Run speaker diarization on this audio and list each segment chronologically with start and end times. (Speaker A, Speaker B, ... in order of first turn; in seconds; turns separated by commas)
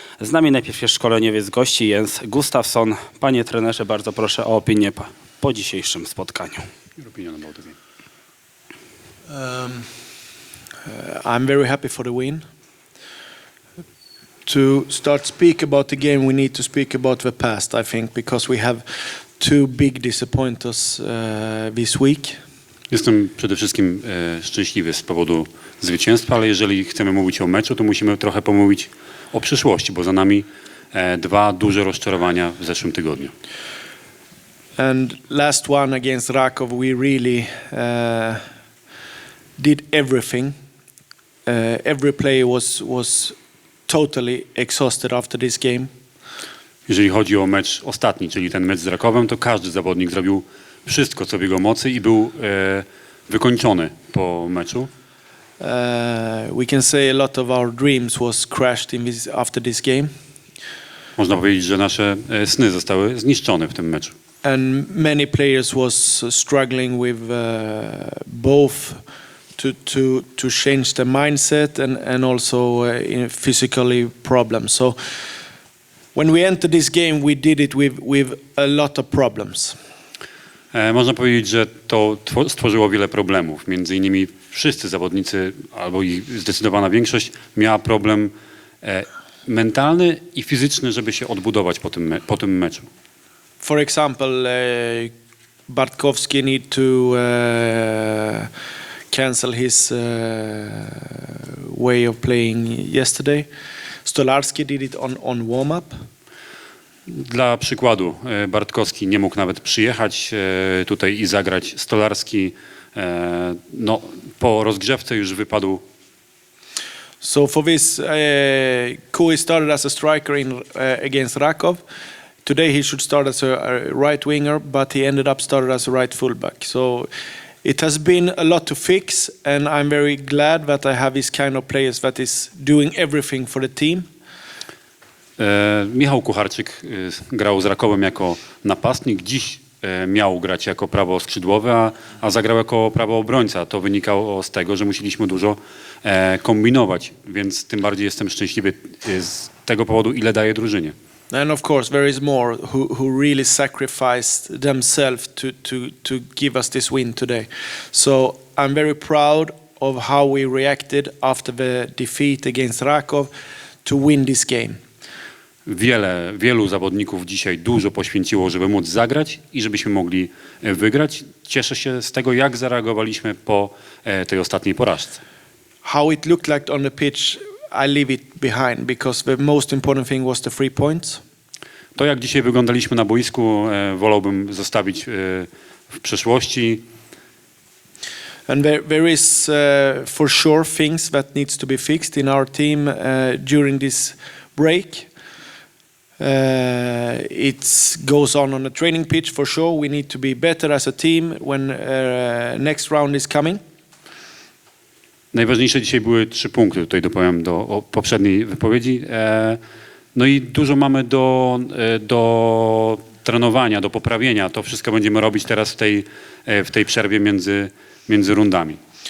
Speaker A: 0.2-6.6, Speaker B: 7.0-7.8, Speaker C: 9.3-9.9, Speaker C: 10.8-12.4, Speaker C: 14.4-22.4, Speaker B: 22.9-33.3, Speaker C: 34.8-38.4, Speaker C: 39.6-40.5, Speaker C: 41.5-43.3, Speaker C: 43.9-45.9, Speaker B: 46.9-54.9, Speaker C: 55.6-60.1, Speaker B: 61.2-64.1, Speaker C: 64.4-69.0, Speaker C: 69.5-75.0, Speaker C: 76.1-79.8, Speaker B: 80.7-88.3, Speaker B: 88.8-92.9, Speaker C: 93.6-95.1, Speaker C: 95.7-98.5, Speaker C: 99.1-103.5, Speaker C: 104.0-106.0, Speaker B: 107.1-115.8, Speaker C: 117.2-121.8, Speaker C: 122.4-127.1, Speaker C: 127.6-134.1, Speaker B: 135.4-150.9, Speaker C: 151.3-163.3, Speaker C: 163.8-164.8, Speaker B: 165.7-175.2, Speaker C: 175.8-181.2, Speaker B: 181.9-186.8, Speaker C: 188.5-195.1, Speaker C: 196.2-203.6, Speaker B: 205.3-209.6, Speaker B: 210.1-218.8